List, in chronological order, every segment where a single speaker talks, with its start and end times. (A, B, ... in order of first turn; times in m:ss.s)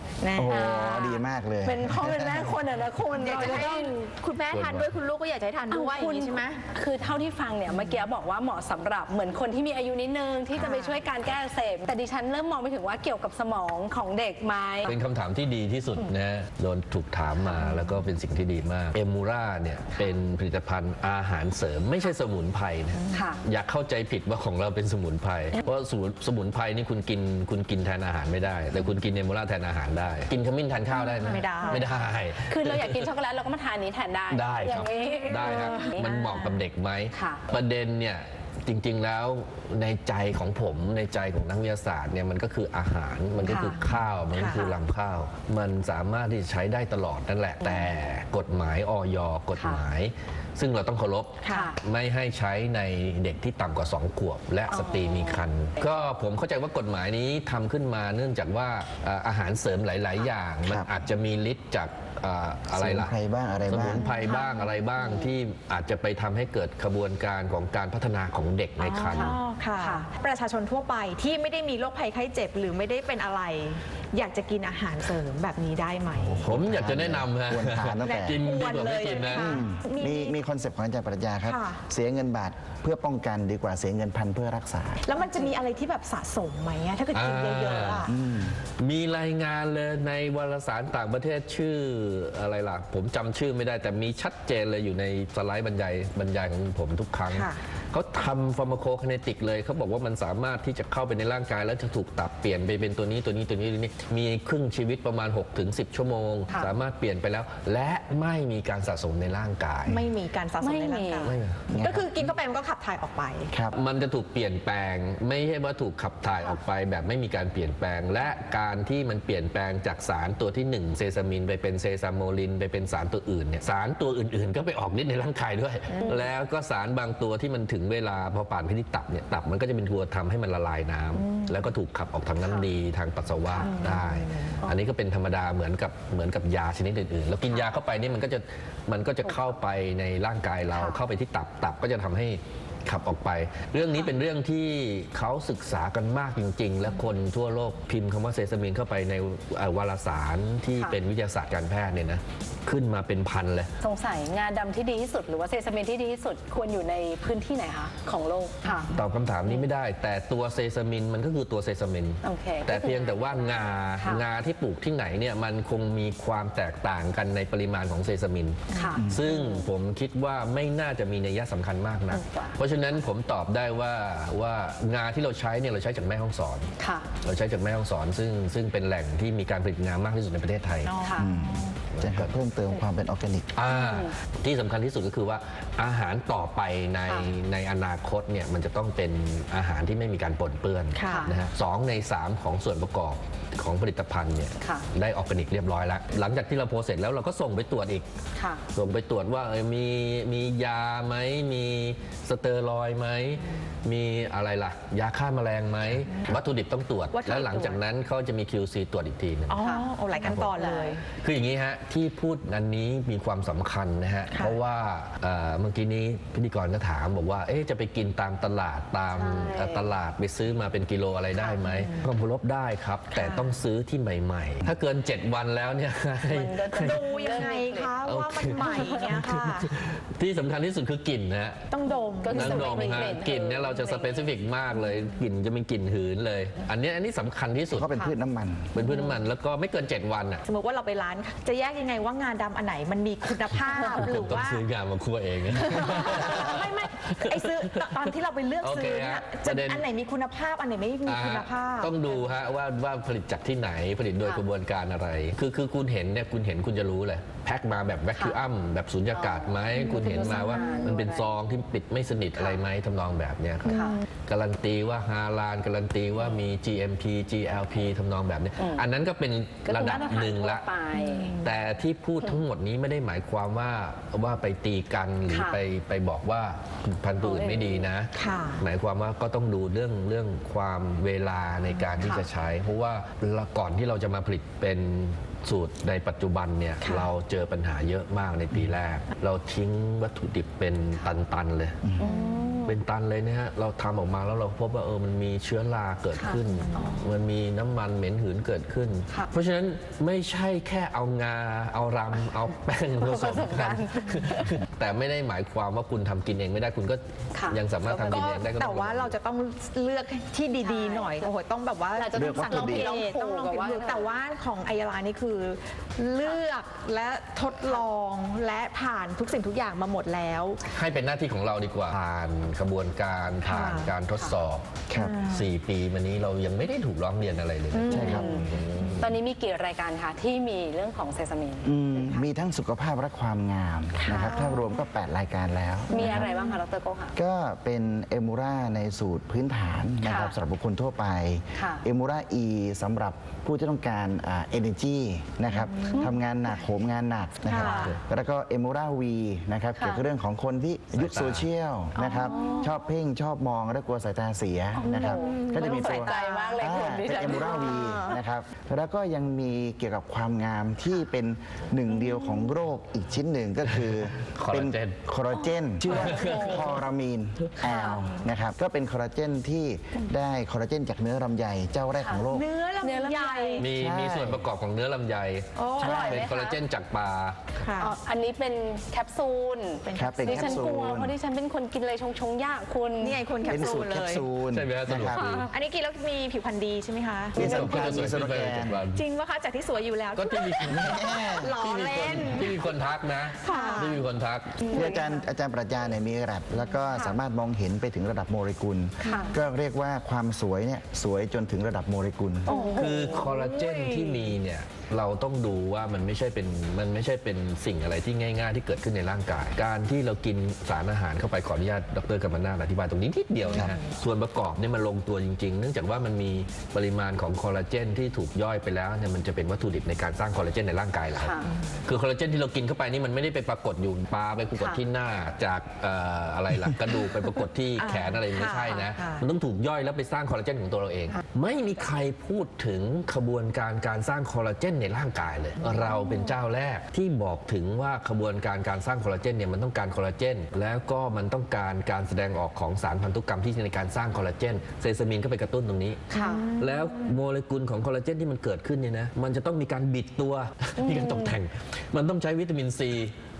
0:00.2-0:01.2 A
0:00.4-0:02.7 B
0:01.6-0:03.9 C
0:03.2-0:06.6 A
0:04.5-0:04.9 D
0:05.7-0:15.0 C
0:10.6-0:11.0 A
0:14.8-0:33.1 D
0:17.6-0:17.8 A
0:23.0-0:23.4 A
0:23.1-0:23.4 C
0:30.9-0:31.8 A
0:31.3-0:31.8 C
0:32.5-0:36.1 C
0:34.3-1:03.1 D
0:35.3-0:36.6 A
0:37.1-0:37.4 C
0:43.4-0:44.7 A
0:49.6-0:49.8 C
0:51.4-0:51.7 A
0:51.5-0:51.8 C
0:54.7-0:55.5 C
1:00.6-1:00.9 B
1:02.7-1:04.0 B
1:03.7-1:09.4 D
1:04.0-1:04.7 A
1:05.0-1:05.3 C
1:08.8-1:16.5 A
1:09.1-1:10.1 C
1:16.3-1:19.6 D
1:16.3-1:18.4 B
1:18.0-1:20.4 A
1:19.3-1:25.0 B
1:21.5-1:21.8 A
1:25.0-1:28.1 A
1:27.1-1:28.1 D
1:28.1-1:28.6 B
1:28.8-1:50.1 D
1:37.3-1:37.6 A
1:49.9-1:53.5 A
1:50.6-1:51.3 C
1:51.2-1:51.6 D
1:51.7-1:52.3 B
1:53.5-1:53.8 B
1:53.7-2:33.7 D
2:05.9-2:06.3 C
2:11.2-2:11.5 A
2:12.4-2:12.7 C
2:13.6-2:14.6 A
2:13.6-2:14.0 C
2:20.7-2:21.0 C
2:33.8-2:38.9 C
2:38.7-2:38.9 A
2:39.0-2:56.7 D
2:42.2-2:44.2 C
2:48.7-2:49.0 A
2:48.7-2:49.7 C
2:52.1-2:52.6 C
2:56.8-2:57.1 C
2:57.2-3:00.9 D
3:00.8-3:01.7 A
3:01.0-3:01.3 C
3:01.2-3:03.5 B
3:01.9-3:02.3 D
3:03.6-3:18.1 D
3:03.7-3:04.1 C
3:11.0-3:11.3 A
3:11.0-3:11.4 C
3:14.6-3:14.9 C
3:18.4-3:18.6 C
3:18.7-3:29.6 D
3:27.1-3:27.8 A
3:29.5-3:31.0 A
3:29.6-3:31.0 C
3:30.2-3:30.5 D
3:31.2-3:47.5 D
3:39.1-3:39.9 C
3:41.4-3:42.1 A
3:43.1-3:43.5 A
3:46.3-3:48.0 C
3:46.8-3:49.7 A
3:48.0-3:51.7 D
3:48.6-3:49.0 C
3:51.7-3:53.1 A
3:51.9-3:54.3 C
3:52.3-3:57.9 D
3:57.7-3:58.9 B
3:58.8-4:00.4 D
4:00.4-4:04.6 A
4:03.7-4:04.0 C
4:04.0-4:09.9 D
4:05.6-4:12.2 A
4:11.0-4:30.7 D
4:19.1-4:21.3 C
4:19.9-4:20.8 A
4:23.7-4:24.0 A
4:23.7-4:24.0 C
4:28.6-4:28.8 C
4:29.7-4:31.4 C
4:31.0-4:31.5 A
4:31.4-4:51.8 D
4:35.3-4:35.6 C
4:37.2-4:37.9 C
4:38.2-4:38.6 A
4:52.0-4:52.8 C
4:52.0-4:52.4 A
4:52.7-5:09.1 D
4:56.2-4:57.0 C
4:56.6-4:56.9 A
5:03.0-5:04.5 C
5:07.3-5:08.2 C
5:08.1-5:20.6 A
5:10.6-5:11.3 C
5:12.0-5:14.1 C
5:12.1-5:13.0 B
5:20.7-5:24.7 D
5:23.4-5:23.9 A
5:24.9-5:25.2 B
5:25.0-5:25.5 A
5:25.3-5:29.1 D
5:27.7-5:29.0 A
5:27.9-5:28.3 B
5:27.9-5:28.5 C
5:29.0-5:31.8 C
5:31.6-5:36.3 B
5:34.0-5:34.7 A
5:34.1-5:34.5 C
5:35.9-5:37.2 C
5:35.9-5:36.6 A
5:37.2-6:12.5 B
5:40.0-5:40.4 C
5:41.6-5:41.8 C
5:45.5-5:46.1 A
5:47.5-5:48.0 A
5:47.6-5:47.9 C
5:49.8-5:50.0 C
5:50.9-5:51.5 D
5:52.0-5:52.8 A
5:52.0-5:52.7 C
5:54.8-5:58.1 C
5:54.9-5:58.2 A
6:03.7-6:05.0 D
6:05.3-6:06.7 C
6:05.8-6:06.7 D
6:07.7-6:08.0 A
6:12.3-6:13.7 A
6:12.8-6:13.7 C
6:13.6-6:17.5 D
6:13.7-6:14.5 B
6:15.6-6:16.3 A
6:15.8-6:16.6 C
6:17.6-6:17.9 A
6:17.8-6:23.5 C
6:19.8-6:20.9 A
6:19.9-6:21.1 B
6:23.0-6:24.3 A
6:23.5-6:25.5 B
6:24.5-6:25.5 D
6:25.2-6:25.5 C
6:25.5-6:27.6 A
6:27.4-6:28.8 B
6:27.4-6:29.0 D
6:29.0-6:32.7 A
6:30.2-6:34.6 D
6:30.7-6:31.5 B
6:33.4-6:34.0 A
6:33.4-6:33.9 C
6:34.7-6:35.2 C
6:34.7-6:42.5 B
6:39.0-6:39.4 C
6:39.0-6:39.4 A
6:42.5-6:43.3 C
6:42.5-6:44.3 A
6:42.8-7:33.1 D
6:53.5-6:53.8 A
7:01.2-7:01.5 C
7:01.4-7:01.8 A
7:07.8-7:09.3 A
7:15.6-7:16.3 A
7:26.1-7:26.5 C
7:26.1-7:27.2 A
7:30.8-7:31.4 C